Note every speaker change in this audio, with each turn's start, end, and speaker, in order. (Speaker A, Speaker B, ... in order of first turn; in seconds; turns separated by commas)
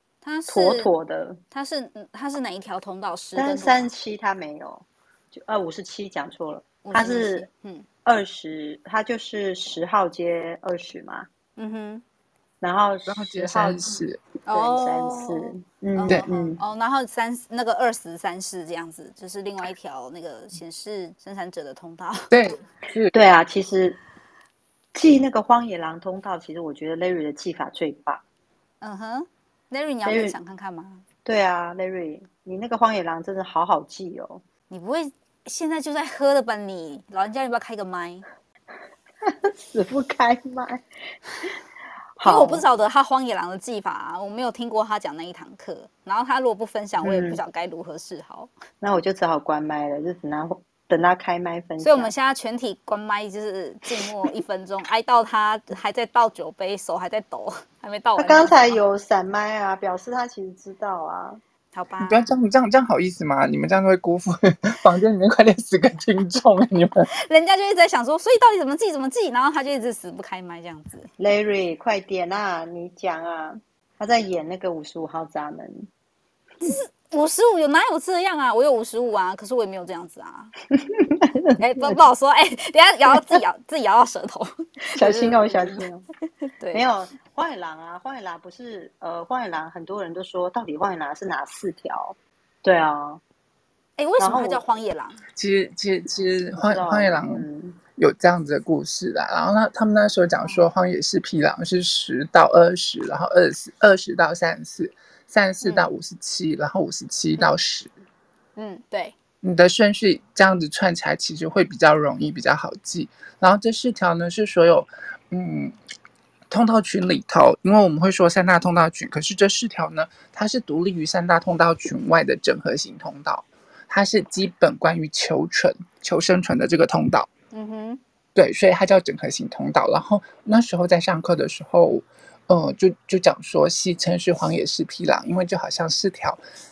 Speaker A: 0.2-0.9, Speaker B: 0.5-1.4, Speaker A: 1.5-3.9, Speaker B: 3.4-7.5, Speaker A: 6.8-7.9, Speaker B: 8.1-11.3, Speaker A: 11.6-12.0, Speaker B: 12.6-13.8, Speaker C: 13.1-14.2, Speaker A: 14.5-22.3, Speaker B: 14.5-16.6, Speaker C: 22.3-23.1, Speaker B: 23.1-24.0, Speaker B: 24.9-28.2, Speaker A: 28.8-31.0, Speaker B: 30.1-30.4, Speaker B: 31.2-34.4, Speaker A: 34.7-38.2, Speaker B: 39.2-40.9, Speaker B: 42.2-42.6, Speaker A: 42.2-48.5, Speaker B: 47.0-47.4, Speaker B: 48.8-52.1, Speaker A: 51.8-58.8, Speaker B: 58.2-61.4, Speaker A: 61.7-62.3, Speaker C: 62.0-67.1, Speaker A: 67.2-71.1, Speaker B: 71.2-75.9, Speaker A: 76.6-80.5, Speaker B: 80.8-82.0, Speaker A: 81.6-85.8, Speaker B: 83.1-83.4, Speaker B: 84.9-86.0, Speaker A: 86.6-86.8, Speaker B: 86.7-93.2, Speaker A: 94.0-95.2, Speaker B: 94.2-94.6, Speaker C: 95.3-107.9, Speaker B: 96.6-97.8, Speaker A: 100.4-100.7, Speaker A: 105.6-105.9, Speaker A: 108.6-109.2, Speaker C: 109.4-115.8, Speaker C: 116.5-127.3, Speaker A: 127.5-128.0, Speaker C: 128.3-136.4